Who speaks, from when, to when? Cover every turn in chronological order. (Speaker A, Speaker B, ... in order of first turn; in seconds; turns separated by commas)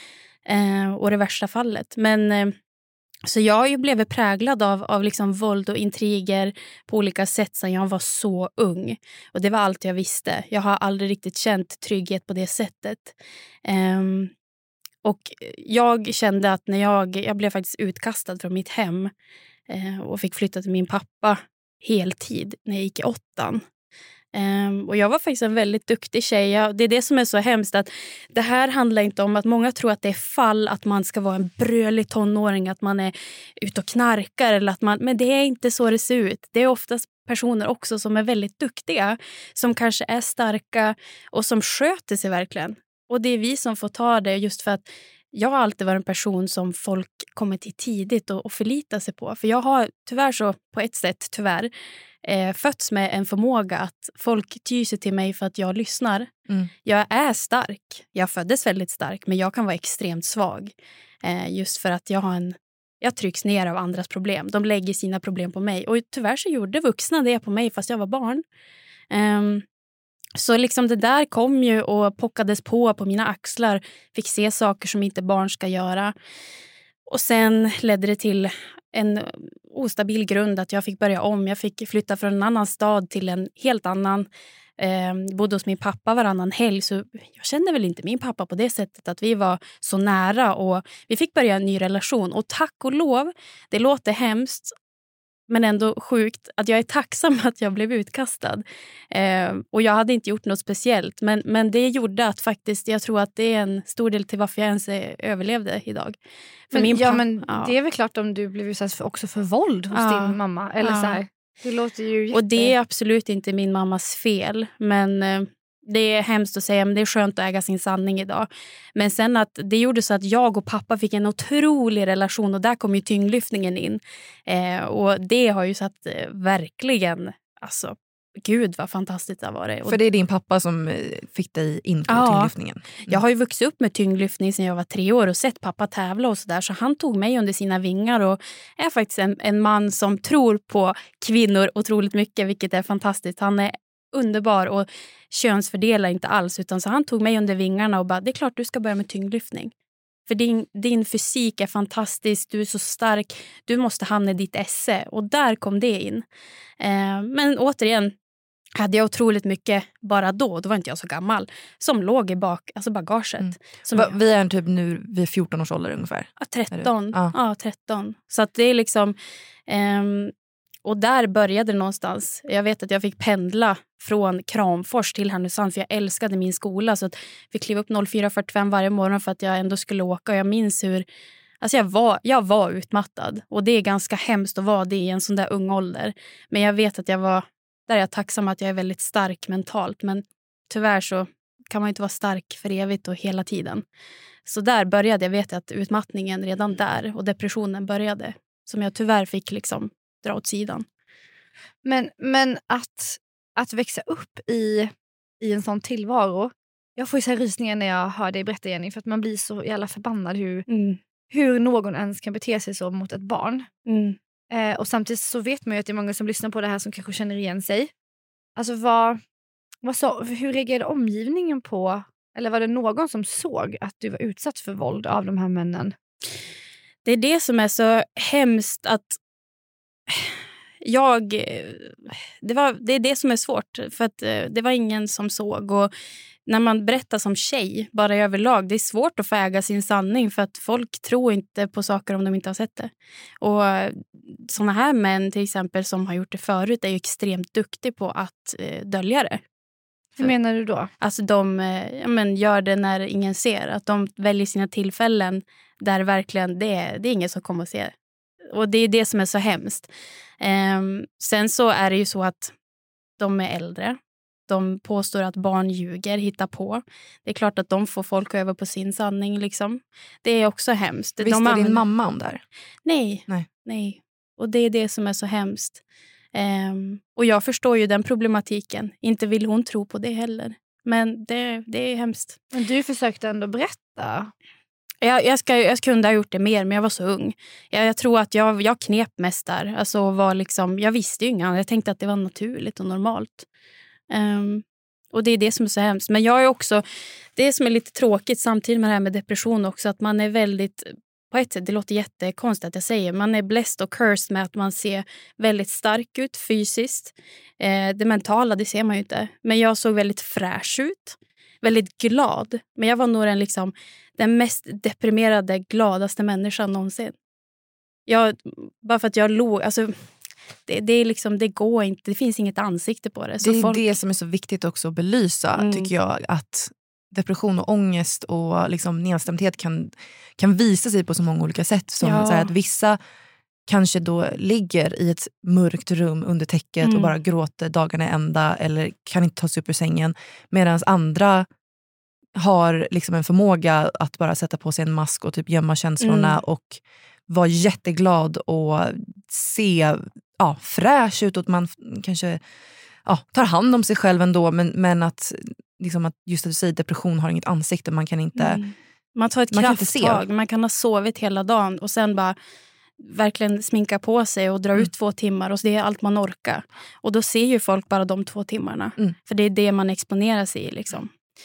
Speaker A: 0.5-2.5, Speaker A: 3.2-13.1, Speaker A: 13.6-14.3, Speaker A: 15.0-19.1, Speaker A: 19.7-23.6, Speaker A: 24.3-51.7, Speaker A: 52.2-56.3, Speaker A: 56.8-68.4, Speaker A: 69.1-69.6, Speaker A: 70.4-76.1, Speaker A: 77.1-84.3, Speaker A: 84.8-94.7, Speaker A: 95.5-106.1, Speaker A: 106.7-107.7, Speaker B: 106.7-112.7, Speaker A: 109.9-111.2, Speaker A: 112.3-130.0, Speaker C: 129.8-133.2, Speaker A: 132.1-132.5, Speaker A: 133.0-149.7, Speaker A: 150.3-156.2, Speaker A: 156.8-158.1, Speaker A: 158.8-164.2, Speaker C: 163.4-167.3, Speaker A: 166.4-169.2, Speaker A: 169.7-170.3, Speaker A: 170.8-181.0, Speaker A: 181.6-193.8, Speaker A: 194.4-200.8, Speaker B: 201.8-210.7, Speaker A: 210.7-211.0, Speaker B: 211.3-213.7, Speaker A: 213.8-214.2, Speaker B: 214.5-217.9, Speaker B: 218.6-219.2, Speaker B: 219.8-225.9, Speaker A: 227.0-229.2, Speaker A: 230.1-235.9, Speaker A: 236.5-249.4, Speaker B: 250.2-250.9, Speaker A: 251.0-257.9, Speaker A: 258.5-259.9, Speaker A: 260.4-262.5, Speaker A: 263.2-271.8, Speaker C: 271.2-272.4, Speaker A: 272.9-275.8, Speaker A: 276.3-282.4, Speaker B: 282.5-284.3, Speaker A: 285.0-293.4, Speaker A: 294.1-296.8, Speaker A: 297.4-317.1, Speaker A: 318.1-319.9, Speaker A: 320.7-323.9, Speaker C: 323.4-333.0, Speaker A: 325.6-325.9, Speaker A: 332.0-332.5, Speaker C: 333.7-341.5, Speaker A: 336.8-337.1, Speaker C: 342.4-352.4, Speaker A: 346.0-346.4, Speaker C: 353.0-358.6, Speaker A: 358.4-362.4, Speaker C: 359.5-360.2, Speaker A: 363.0-371.1